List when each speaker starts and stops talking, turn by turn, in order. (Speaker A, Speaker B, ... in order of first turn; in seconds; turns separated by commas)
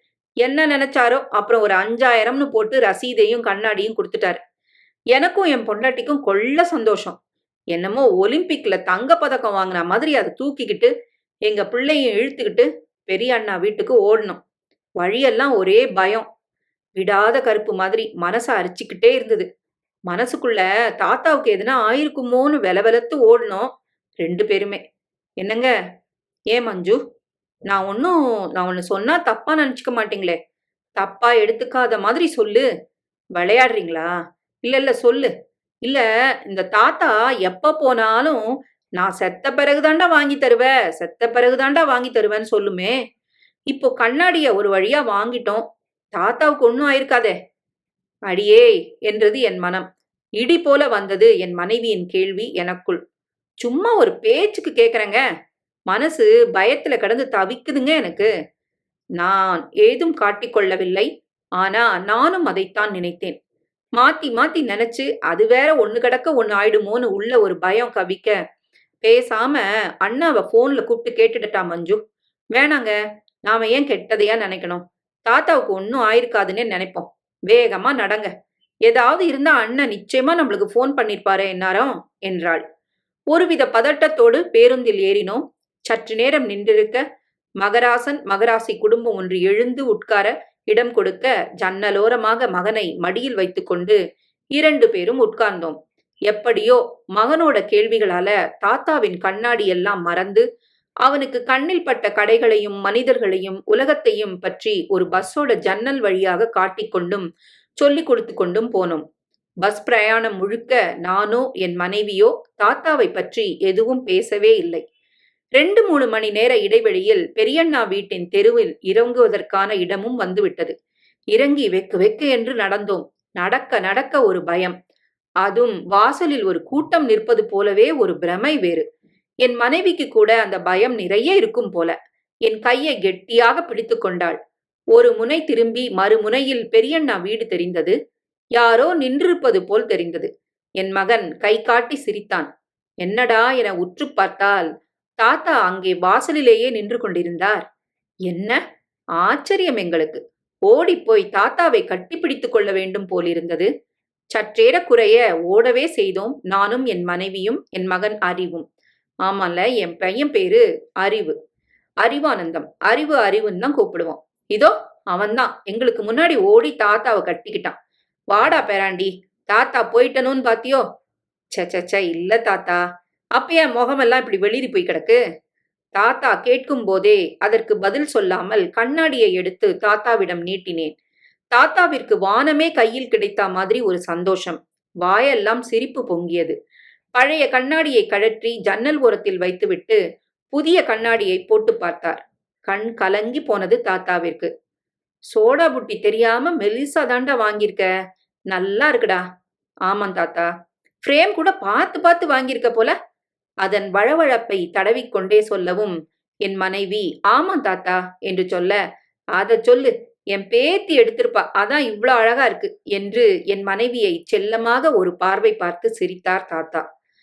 Speaker A: 0.4-4.4, Speaker A: 5.1-7.2, Speaker A: 7.7-10.9, Speaker A: 11.4-14.4, Speaker A: 15.0-16.2, Speaker A: 17.0-19.5, Speaker A: 20.1-23.7, Speaker A: 24.2-24.8, Speaker A: 25.4-25.7, Speaker A: 26.5-27.0, Speaker A: 27.7-30.4, Speaker A: 31.0-32.7, Speaker A: 33.4-34.1, Speaker A: 34.6-35.3, Speaker A: 35.8-38.4, Speaker A: 39.0-42.9, Speaker A: 43.7-45.6, Speaker A: 46.1-47.3, Speaker A: 48.3-49.8, Speaker A: 50.4-53.0, Speaker A: 53.6-55.2, Speaker A: 55.9-58.3, Speaker A: 59.2-61.1, Speaker A: 61.6-63.4, Speaker A: 64.0-68.3, Speaker A: 69.0-72.0, Speaker A: 72.5-72.9, Speaker A: 73.5-78.3, Speaker A: 78.8-82.6, Speaker A: 83.3-87.0, Speaker A: 87.6-94.0, Speaker A: 94.5-95.8, Speaker A: 96.3-100.4, Speaker A: 101.0-107.2, Speaker A: 107.8-109.0, Speaker A: 109.6-114.8, Speaker A: 115.6-120.7, Speaker A: 121.3-124.7, Speaker A: 125.4-128.8, Speaker A: 129.4-131.9, Speaker A: 132.4-134.4, Speaker A: 134.9-137.9, Speaker A: 138.6-142.5, Speaker A: 143.0-147.6, Speaker A: 148.3-148.6, Speaker A: 149.2-153.7, Speaker A: 154.3-158.7, Speaker A: 159.2-161.3, Speaker A: 162.0-167.7, Speaker A: 168.3-170.8, Speaker A: 171.5-172.8, Speaker A: 173.4-175.2, Speaker A: 175.9-180.9, Speaker A: 181.5-186.5, Speaker A: 187.2-190.0, Speaker A: 190.5-194.5, Speaker A: 195.3-197.9, Speaker A: 198.5-199.2, Speaker A: 199.9-200.5, Speaker A: 201.0-202.9, Speaker A: 203.6-208.8, Speaker A: 209.3-216.8